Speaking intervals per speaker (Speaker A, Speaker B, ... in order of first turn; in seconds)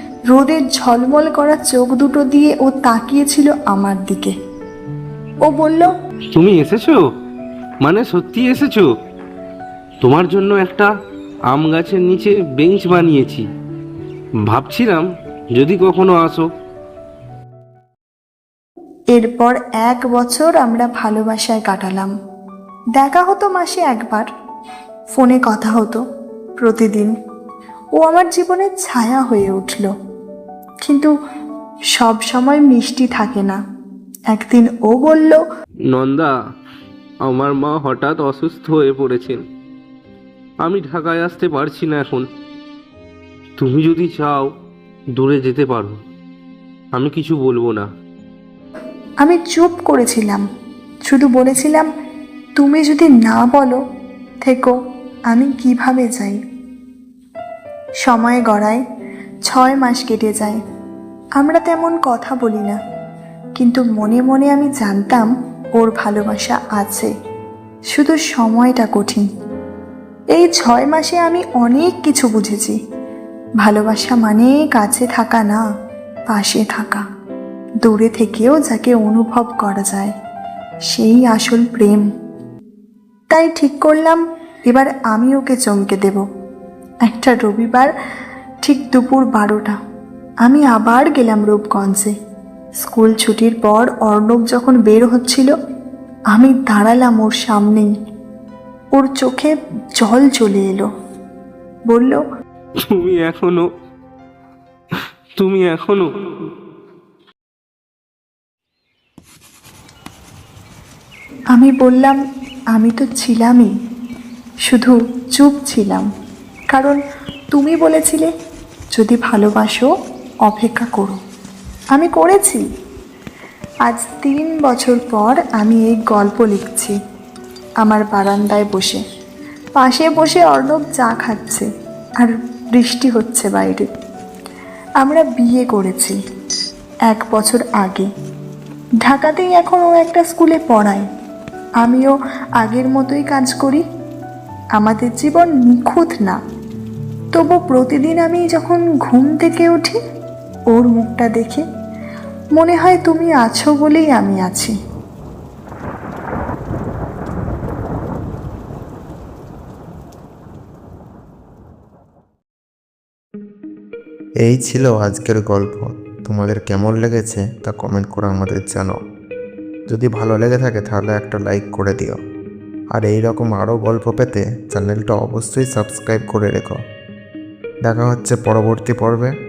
Speaker A: 0.3-4.3, 5.4-5.9, 19.1-22.1, 22.9-24.3, 25.1-26.0, 26.6-27.1, 28.0-29.9, 30.8-31.1, 31.9-33.6, 34.3-35.4, 49.2-50.4, 51.1-51.9, 52.6-53.8, 54.4-54.7, 55.3-56.4, 58.0-58.8, 59.5-60.6, 61.4-62.8, 63.6-67.1, 67.9-69.3, 70.3-72.8, 73.6-75.6, 76.3-77.0, 77.8-80.1, 80.9-82.1, 83.3-86.2, 87.1-87.9, 88.6-89.8, 90.4-92.1, 92.8-95.5, 96.3-97.9, 99.0-100.9, 101.9-102.2, 111.5-112.2, 112.7-113.7, 114.7-116.1, 116.7-117.0, 117.5-118.3, 118.9-119.9, 120.4-121.2, 121.9-122.6, 123.9-126.9, 127.8-129.0, 129.8-131.7, 132.2-133.9, 135.0-136.2, 137.1-138.1, 139.0-141.1, 141.8-143.8, 144.8-146.4, 147.3-150.0, 150.7-151.6, 152.6-154.8
Speaker B: 6.3-7.0, 7.8-8.9, 10.0-10.9, 11.5-13.4, 14.5-16.4, 35.9-36.3, 37.3-39.4, 40.6-42.2, 43.6-44.5, 45.2-46.0, 46.9-47.9, 102.9-103.6, 105.4-106.1
Speaker C: 164.4-168.9, 169.9-172.2, 172.9-176.8, 177.9-179.3